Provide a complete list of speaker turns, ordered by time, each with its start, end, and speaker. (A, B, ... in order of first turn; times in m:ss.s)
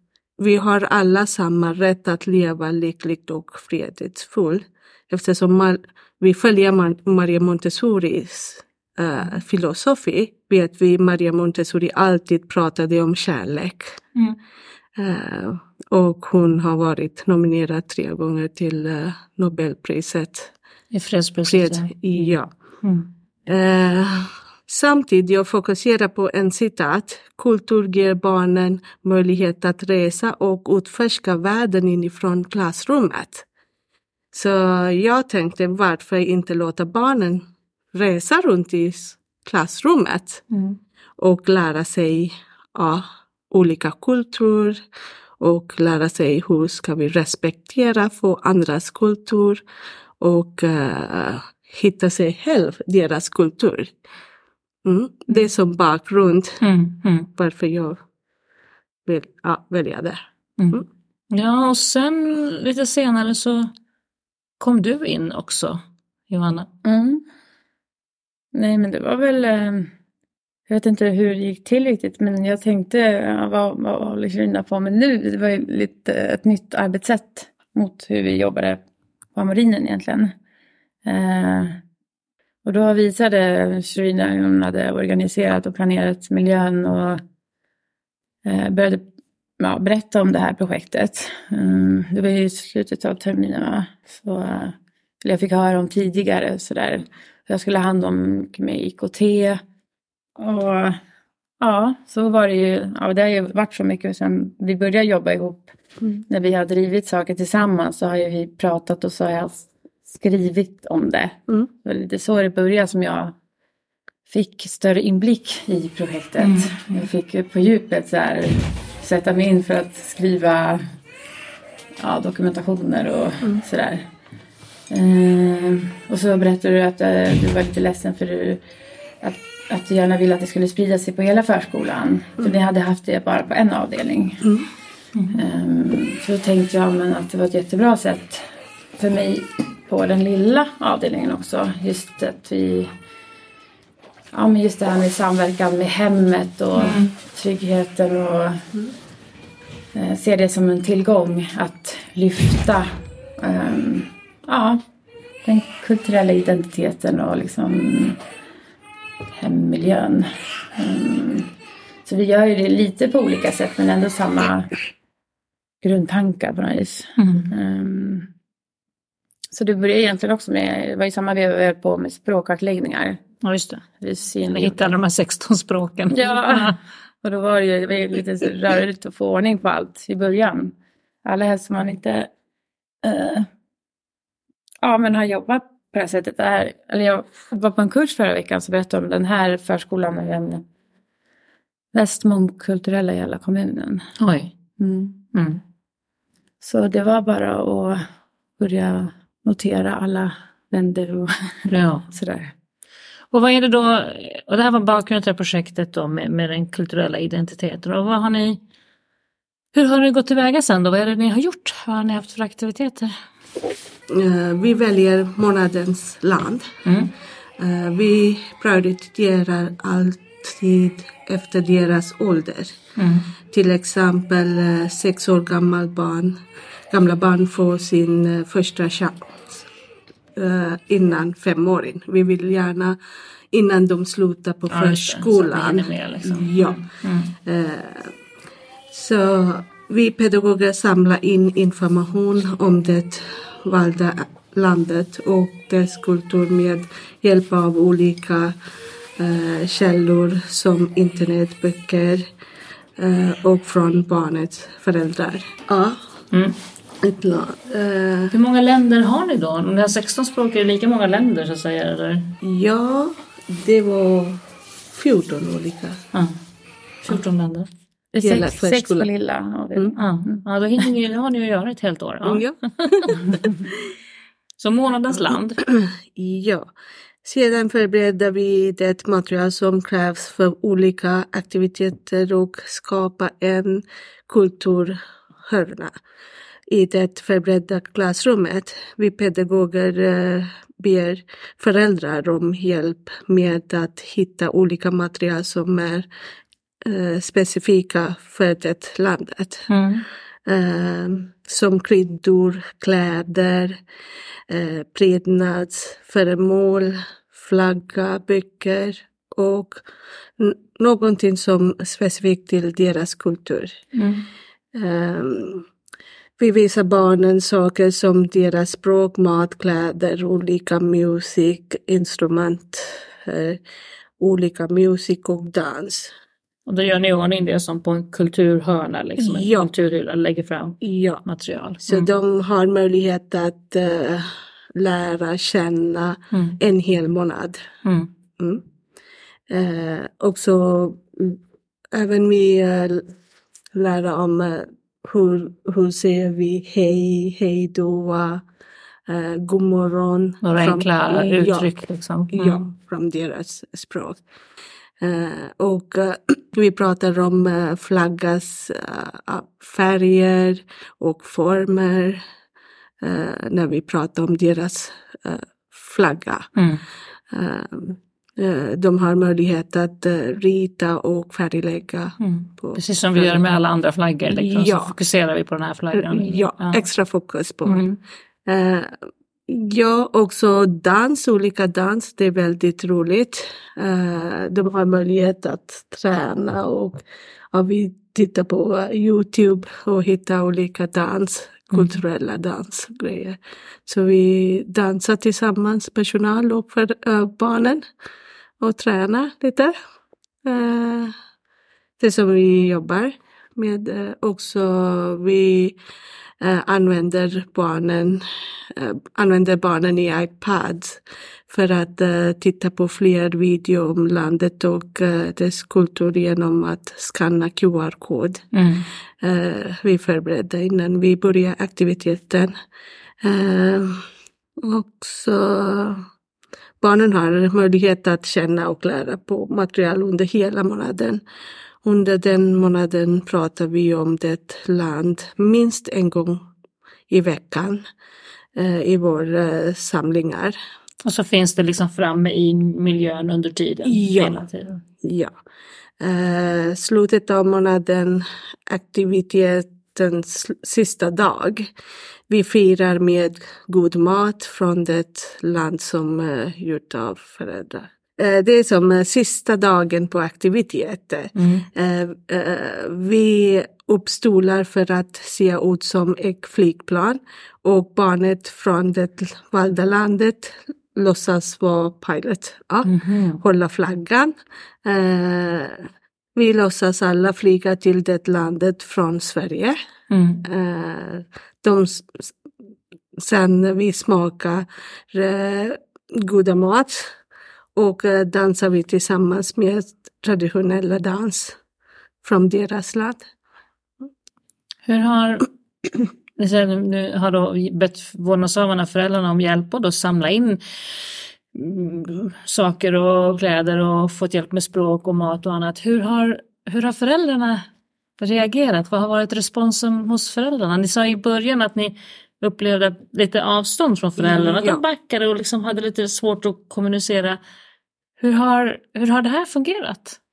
0:00.4-0:14.0 A
0:15.0-0:20.5 A
0:20.9-0:22.3 B
0:21.5-0:22.5 A
0:22.8-0:23.1 B
0:23.4-0:33.4 A
0:34.3-0:40.4 A
0:40.5-0:40.8 B
0:41.2-0:44.8 A
0:45.4-0:49.6 A
0:50.2-0:53.9 A
0:54.8-0:56.6 A
0:56.6-0:57.3 B
0:57.4-0:58.0 A
0:59.0-1:00.2 A
1:00.6-1:03.7 B
1:04.6-1:06.7 B
1:06.8-1:07.2 C
1:08.5-1:09.9 C
1:10.7-1:18.8 C
1:19.3-1:20.3 C
1:21.0-1:21.8 C
1:22.6-1:27.2 C
1:28.4-1:29.1 C
1:29.6-1:39.6 C
1:40.4-1:41.0 C
1:41.6-1:45.7 C
1:46.3-1:53.4 C
1:54.3-2:00.8 C
1:56.4-1:57.0 B
2:02.0-2:04.1 C
2:04.9-2:08.6 C
2:09.2-2:14.5 C
2:15.1-2:15.4 B
2:15.3-2:18.4 C
2:19.0-2:22.9 C
2:24.3-2:28.7 C
2:26.8-2:27.1 B
2:29.9-2:34.8 C
2:35.4-2:38.2 C
2:39.3-2:41.5 C
2:42.0-2:44.7 C
2:45.8-2:48.3 C
2:47.2-2:47.5 B
2:49.5-2:53.2 C
2:53.4-2:53.8 B
2:54.0-2:54.8 C
2:54.4-2:56.8 B
2:56.1-3:02.3 C
3:03.0-3:03.5 C
3:04.8-3:10.6 C
3:11.9-3:14.1 C
3:14.2-3:14.5 B
3:14.8-3:15.2 C
3:15.3-3:15.6 B
3:16.6-3:18.0 C
3:18.6-3:21.6 C
3:21.7-3:22.1 B
3:22.1-3:22.5 C
3:23.3-3:28.6 B
3:29.7-3:33.1 B
3:34.1-3:36.7 A
3:36.8-3:37.1 B
3:37.6-3:42.8 A
3:43.0-3:43.3 B
3:43.5-3:49.6 A
3:50.4-3:53.0 A
3:53.5-3:56.8 A
3:54.7-3:57.3 B
3:57.4-3:58.1 A
3:58.9-4:08.6 A
4:09.2-4:12.3 A
4:13.0-4:16.0 A
4:16.3-4:16.6 B
4:17.0-4:18.3 A
4:18.3-4:22.3 B
4:22.4-4:26.0 A
4:26.1-4:26.4 B
4:27.0-4:27.7 B
4:28.1-4:29.1 A
4:28.2-4:30.4 C
4:30.0-4:33.3 B
4:32.2-4:33.9 A
4:34.6-4:35.6 B
4:35.6-4:36.7 A
4:37.2-4:45.9 A
4:46.7-4:56.1 A
4:56.8-4:59.7 A
4:59.7-5:00.0 B
5:00.4-5:03.8 A
5:04.5-5:09.8 A
5:10.4-5:13.8 A
5:13.9-5:14.2 B
5:14.7-5:15.7 A
5:16.4-5:23.6 A
5:24.2-5:26.1 A
5:26.6-5:32.1 B
5:29.2-5:29.7 A
5:30.8-5:31.2 A
5:31.8-5:37.6 A
5:37.8-5:38.1 B
5:38.4-5:38.6 A
5:39.5-5:41.4 A
5:41.9-5:43.1 A
5:43.7-5:48.4 A
5:49.1-5:51.7 A
5:50.4-5:52.6 B
5:52.3-5:54.2 A
5:55.0-6:02.2 A
6:03.0-6:06.5 A
6:06.6-6:06.8 B
6:07.3-6:13.4 A
6:12.2-6:16.8 B
6:14.3-6:15.0 A
6:15.9-6:17.8 A
6:17.6-6:18.0 B
6:18.5-6:18.9 A
6:19.5-6:27.0 A
6:27.5-6:37.8 A
6:31.7-6:32.0 B
6:38.6-6:39.7 A
6:40.4-6:41.1 A
6:42.0-6:45.8 A
6:46.4-6:58.5 A
6:58.5-6:58.8 B
6:59.2-7:02.5 A
7:03.2-7:04.0 A
7:04.6-7:06.0 A
7:06.8-7:11.2 A
7:11.8-7:16.4 A
7:17.1-7:17.8 A
7:18.6-7:20.5 A
7:21.0-7:24.8 B
7:23.8-7:24.4 A
7:25.0-7:25.3 A
7:26.0-7:31.7 A
7:32.3-7:59.8 A
7:41.4-7:41.6 B
7:52.8-7:53.4 B
8:00.1-8:00.4 B
8:00.4-8:02.4 A
8:03.2-8:07.2 A
8:07.8-8:11.6 A
8:12.2-8:13.2 A
8:14.9-8:15.5 B
8:16.4-8:20.6 B
8:21.5-8:27.7 B
8:28.2-8:37.4 B
8:34.2-8:34.8 A
8:38.2-8:40.2 B